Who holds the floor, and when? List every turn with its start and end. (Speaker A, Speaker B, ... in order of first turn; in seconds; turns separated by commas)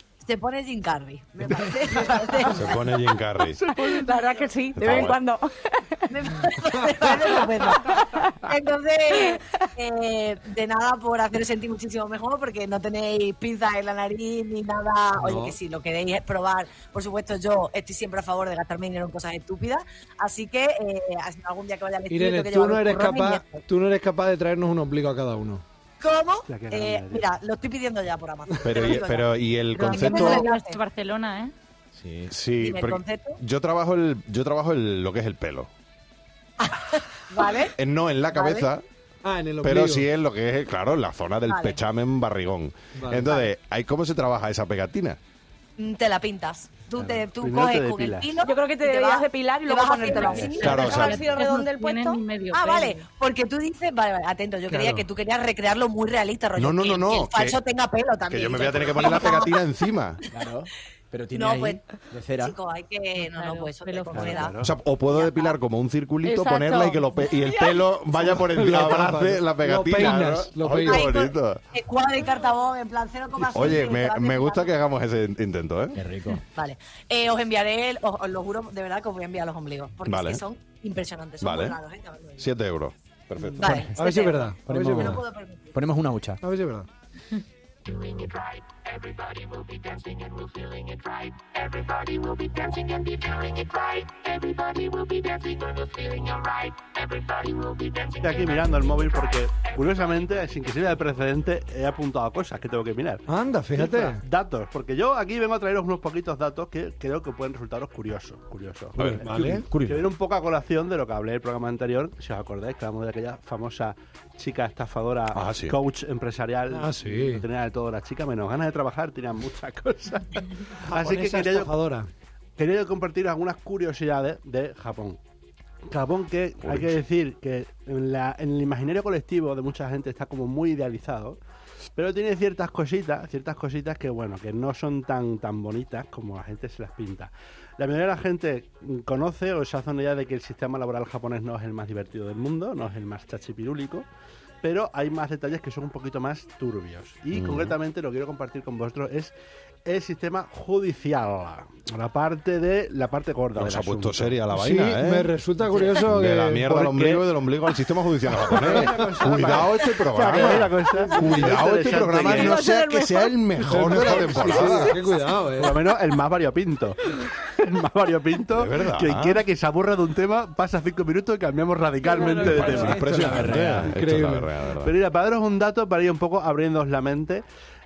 Speaker A: 0.2-3.0, Speaker B: 2.5-3.6, Speaker C: 3.7-6.1, Speaker D: 3.8-4.1, Speaker B: 4.8-5.2, Speaker A: 6.1-23.6, Speaker E: 6.5-7.4, Speaker C: 7.3-8.5, Speaker C: 9.1-9.7, Speaker E: 15.2-15.6, Speaker E: 22.1-25.6, Speaker A: 26.0-30.8, Speaker D: 26.4-27.3, Speaker B: 28.6-30.4, Speaker F: 29.7-31.5, Speaker G: 31.9-32.3, Speaker B: 32.3-35.7, Speaker A: 32.6-33.4, Speaker A: 36.6-37.7, Speaker B: 37.7-38.8, Speaker A: 38.3-38.7, Speaker E: 39.2-40.0, Speaker B: 39.6-45.2, Speaker A: 41.5-41.8, Speaker E: 43.0-43.3, Speaker A: 45.8-51.5, Speaker D: 47.0-48.3, Speaker C: 48.4-52.2, Speaker B: 50.6-51.3, Speaker F: 50.8-53.0, Speaker A: 52.5-59.6, Speaker E: 54.7-55.0, Speaker B: 56.5-57.6, Speaker B: 58.3-60.2, Speaker G: 60.3-62.5, Speaker A: 61.3-61.8, Speaker A: 62.4-65.6, Speaker F: 63.2-64.5, Speaker D: 64.1-64.7, Speaker B: 64.6-71.6, Speaker C: 66.2-67.3, Speaker E: 68.2-71.1, Speaker A: 70.8-74.7, Speaker D: 73.4-73.7, Speaker B: 73.5-76.0, Speaker G: 75.9-76.4, Speaker A: 76.5-82.5, Speaker B: 80.0-80.4, Speaker B: 81.4-81.8, Speaker B: 82.4-83.7, Speaker A: 83.6-85.8, Speaker G: 83.6-83.9, Speaker E: 83.7-85.2, Speaker G: 84.6-86.4, Speaker E: 86.4-86.9, Speaker D: 98.1-121.8, Speaker E: 103.3-104.2, Speaker B: 109.0-110.0, Speaker E: 109.2-109.7, Speaker B: 115.3-115.8, Speaker E: 116.7-117.5, Speaker E: 120.9-122.1, Speaker D: 122.6-125.2, Speaker D: 125.9-131.4, Speaker B: 126.6-127.0, Speaker D: 131.9-144.1, Speaker D: 144.6-149.3, Speaker B: 147.3-147.8, Speaker D: 149.8-154.3, Speaker B: 153.5-155.3, Speaker E: 154.5-157.3, Speaker B: 155.9-165.0, Speaker D: 158.4-162.8, Speaker E: 158.5-159.6, Speaker E: 160.3-161.6, Speaker E: 162.3-162.7, Speaker E: 163.6-165.8, Speaker D: 163.9-173.3, Speaker B: 168.5-169.4, Speaker G: 172.1-173.9, Speaker B: 172.3-174.9, Speaker E: 173.9-174.5, Speaker D: 174.7-177.4